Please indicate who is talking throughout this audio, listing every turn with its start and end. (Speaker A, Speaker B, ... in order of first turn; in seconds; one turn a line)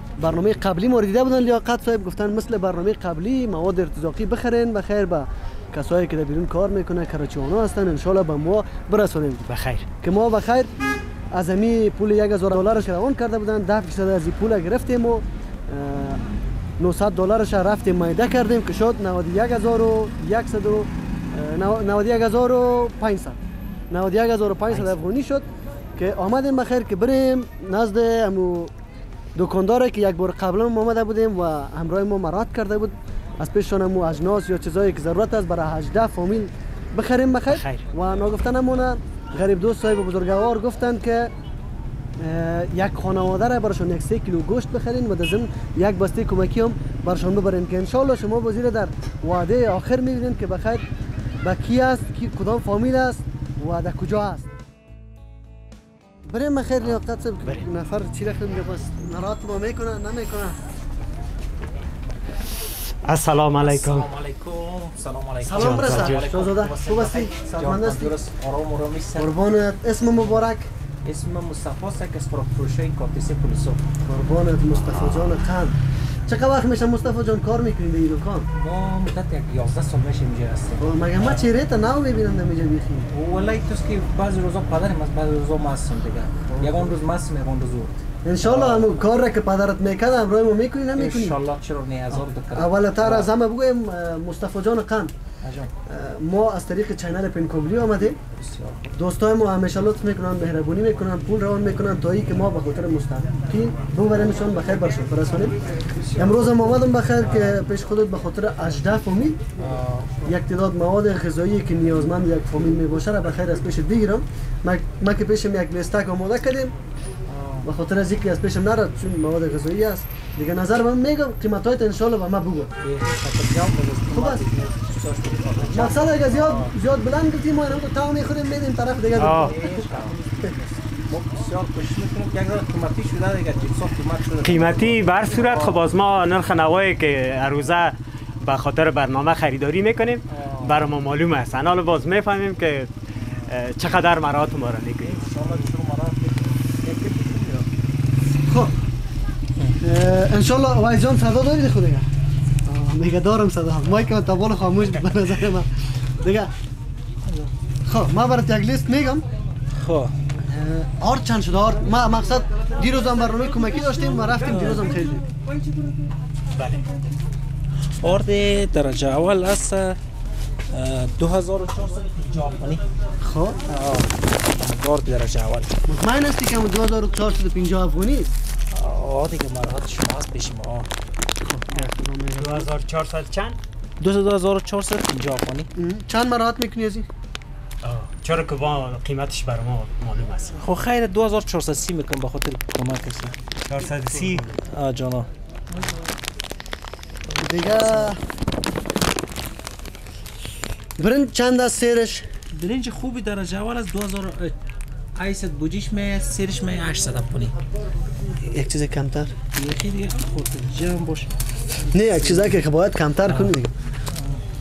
Speaker A: 0.2-9.4
Speaker B: 9.5-9.9
Speaker A: 10.0-10.7
Speaker A: 11.3-16.2
Speaker A: 16.8-23.4
Speaker A: 23.9-28.7
Speaker A: 29.4-41.3
Speaker B: 37.5-37.9
Speaker A: 42.2-50.9
Speaker A: 51.4-54.5
Speaker A: 56.3-60.6
Speaker B: 63.0-64.1
Speaker C: 63.6-69.4
Speaker A: 65.4-68.2
Speaker B: 65.5-66.2
Speaker A: 69.2-70.7
Speaker C: 71.0-73.8
Speaker A: 74.0-78.5
Speaker C: 78.6-81.5
Speaker A: 80.8-83.1
Speaker C: 83.1-88.9
Speaker A: 88.2-91.4
Speaker C: 91.0-93.3
Speaker A: 92.1-95.1
Speaker C: 95.4-95.7
Speaker A: 95.9-98.2
Speaker C: 98.3-98.9
Speaker A: 99.0-105.6
Speaker A: 106.1-109.5
Speaker C: 109.6-110.2
Speaker A: 110.2-116.7
Speaker C: 117.3-117.7
Speaker A: 117.6-122.7
Speaker C: 122.8-126.7
Speaker A: 124.1-124.4
Speaker A: 125.7-129.6
Speaker B: 129.2-129.6
Speaker C: 129.2-135.8
Speaker B: 134.4-142.9
Speaker C: 140.3-140.8
Speaker B: 143.5-145.3
Speaker C: 145.0-147.7
Speaker A: 148.5-148.7
Speaker A: 149.8-152.1
Speaker A: 152.7-155.7
Speaker A: 156.2-156.5
Speaker A: 157.9-159.2
Speaker C: 159.7-160.1
Speaker A: 160.4-165.2
Speaker B: 166.6-166.8
Speaker C: 168.0-170.0
Speaker C: 170.7-172.8
Speaker A: 173.2-173.6
Speaker C: 173.7-175.7
Speaker A: 175.9-178.3
Speaker C: 178.7-180.9
Speaker A: 181.4-182.7
Speaker B: 182.4-183.6
Speaker C: 184.0-185.7
Speaker A: 185.8-187.1
Speaker B: 187.8-190.6
Speaker C: 190.6-193.3
Speaker B: 193.7-194.5
Speaker C: 194.5-195.3
Speaker A: 197.4-198.2
Speaker A: 201.0-202.3
Speaker C: 202.5-204.5
Speaker C: 205.2-207.6
Speaker A: 208.3-209.3
Speaker C: 209.5-211.3
Speaker A: 211.9-213.7
Speaker C: 214.2-214.4